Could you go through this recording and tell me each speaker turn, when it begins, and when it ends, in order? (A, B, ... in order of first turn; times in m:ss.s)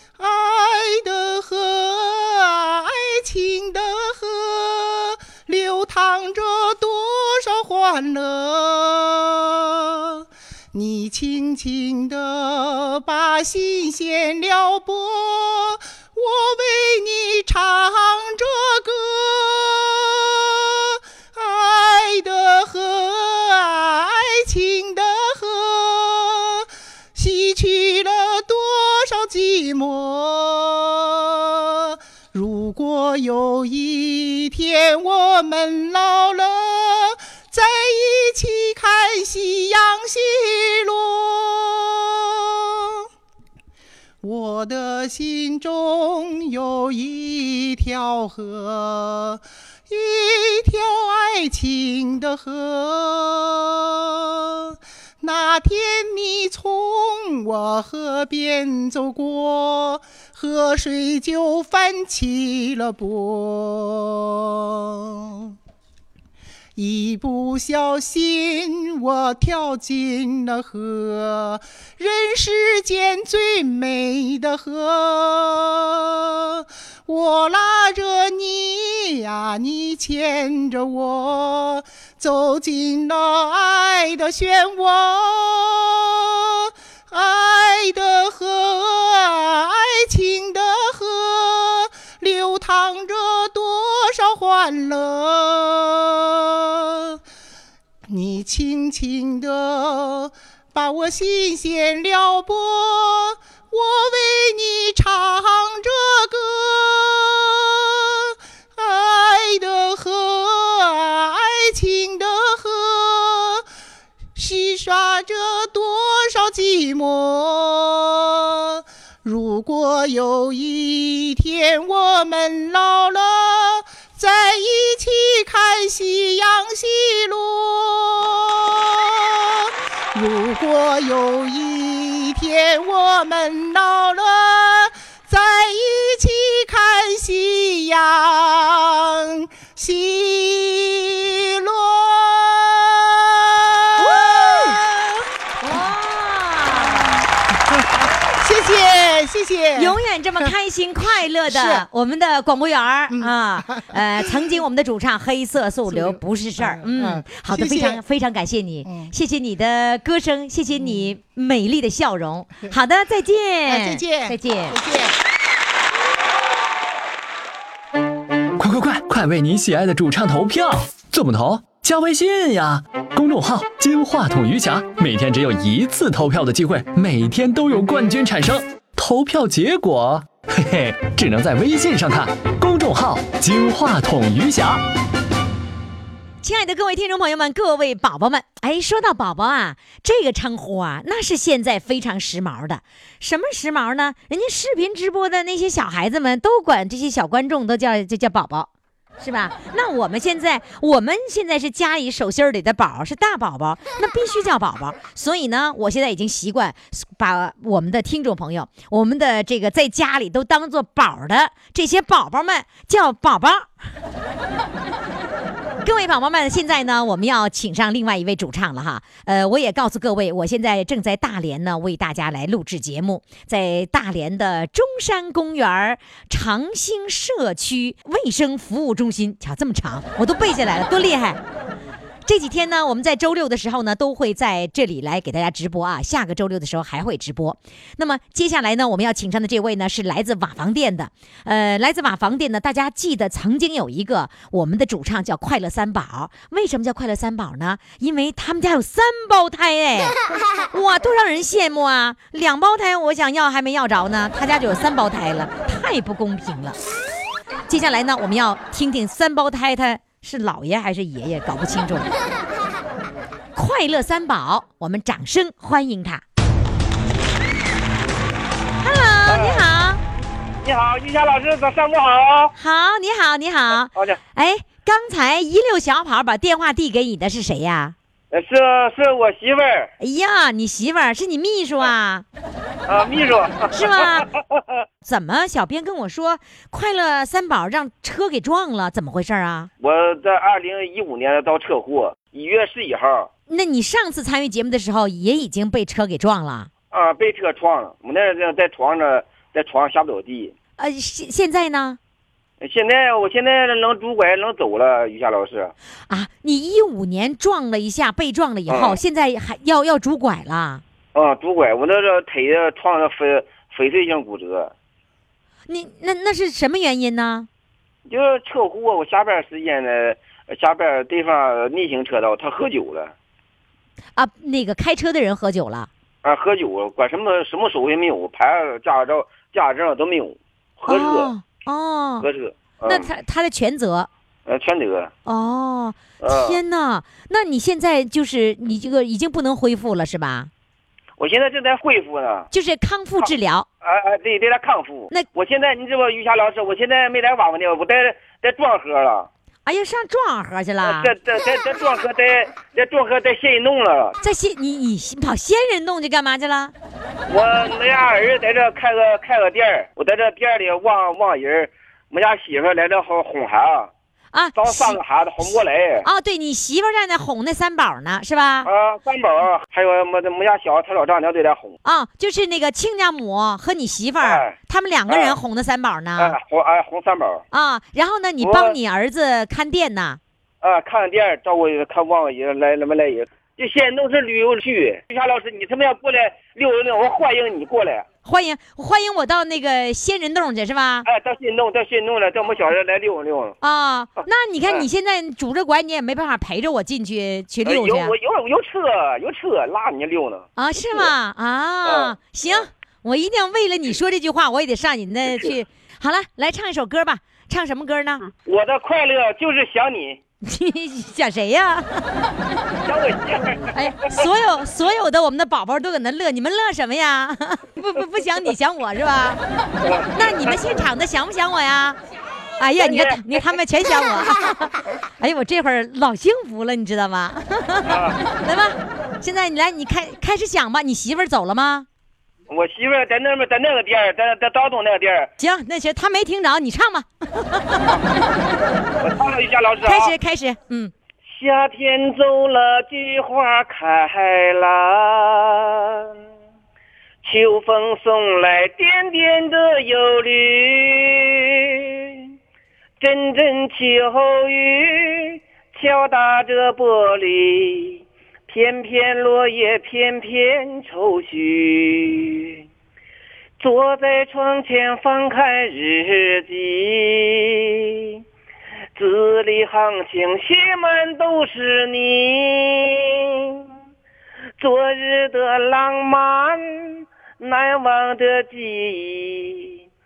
0:00.2-0:43.1 A
0:44.2-1:05.6 A
1:06.8-1:37.2 A
1:38.1-1:53.6 A
1:54.4-2:25.8 A
2:24.0-2:24.8 B
2:25.6-2:27.2 B
2:26.8-2:30.5 A
2:29.8-2:44.8 B
2:31.5-2:31.9 A
2:33.1-2:34.0 A
2:35.9-2:38.0 A
2:38.8-2:39.1 A
2:40.8-2:41.1 A
2:43.6-2:45.2 A
2:48.6-3:04.8 C
3:06.4-3:18.7 B
3:19.2-3:33.7 B
3:35.8-3:51.4 B
3:52.3-4:10.2 B
4:10.7-4:16.8 B
4:17.7-4:22.1 B
4:23.6-4:26.2 B
4:28.8-4:30.0 B
4:29.3-4:29.6 D
4:30.6-4:32.5 D
4:32.6-4:38.0 B
4:38.3-4:39.9 D
4:40.0-4:42.3 B
4:42.9-4:44.6 D
4:43.8-4:44.3 B
4:45.1-4:49.7 B
4:49.8-4:53.3 D
4:53.5-4:56.7 B
4:56.9-5:00.5 D
5:00.8-5:02.0 B
5:02.6-5:05.7 D
5:06.1-5:10.8 B
5:08.7-5:09.0 D
5:11.2-5:14.7 D
5:15.7-5:17.5 B
5:18.1-5:23.1 D
5:24.2-5:25.9 B
5:26.2-5:31.3 D
5:30.9-5:32.3 B
5:32.2-5:33.1 D
5:32.8-5:34.1 B
5:34.5-5:35.1 D
5:35.3-5:40.5 B
5:36.2-5:36.6 D
5:41.2-5:42.5 D
5:42.5-5:43.7 B
5:43.8-5:49.3 D
5:49.7-5:51.1 B
5:50.8-5:54.2 D
5:54.2-5:56.7 B
5:57.3-6:03.9 D
6:04.3-6:08.7 B
6:04.6-6:06.1 D
6:08.6-6:11.8 D
6:11.8-6:16.4 B
6:14.2-6:14.5 D
6:15.1-6:15.4 D
6:16.2-6:17.4 D
6:17.5-6:20.2 B
6:18.4-6:18.8 D
6:20.6-6:28.1 D
6:28.3-6:31.1 B
6:31.1-6:33.6 D
6:33.6-6:38.1 B
6:37.6-6:41.1 D
6:40.6-6:48.2 B
6:41.8-6:42.7 D
6:48.5-6:50.2 D
6:50.4-6:52.2 B
6:52.9-6:53.7 D
6:53.8-6:59.4 B
6:59.8-7:00.1 D
7:00.2-7:02.0 B
7:02.6-7:11.9 B
7:02.8-7:03.4 D
7:07.9-7:08.2 D
7:12.5-7:15.3 D
7:15.4-7:17.8 B
7:19.0-7:20.1 D
7:19.8-7:20.9 B
7:21.4-7:25.9 D
7:27.2-7:31.9 D
7:33.0-7:42.5 D
7:43.6-7:48.0 D
7:49.0-7:53.6 D
7:54.6-7:59.7 D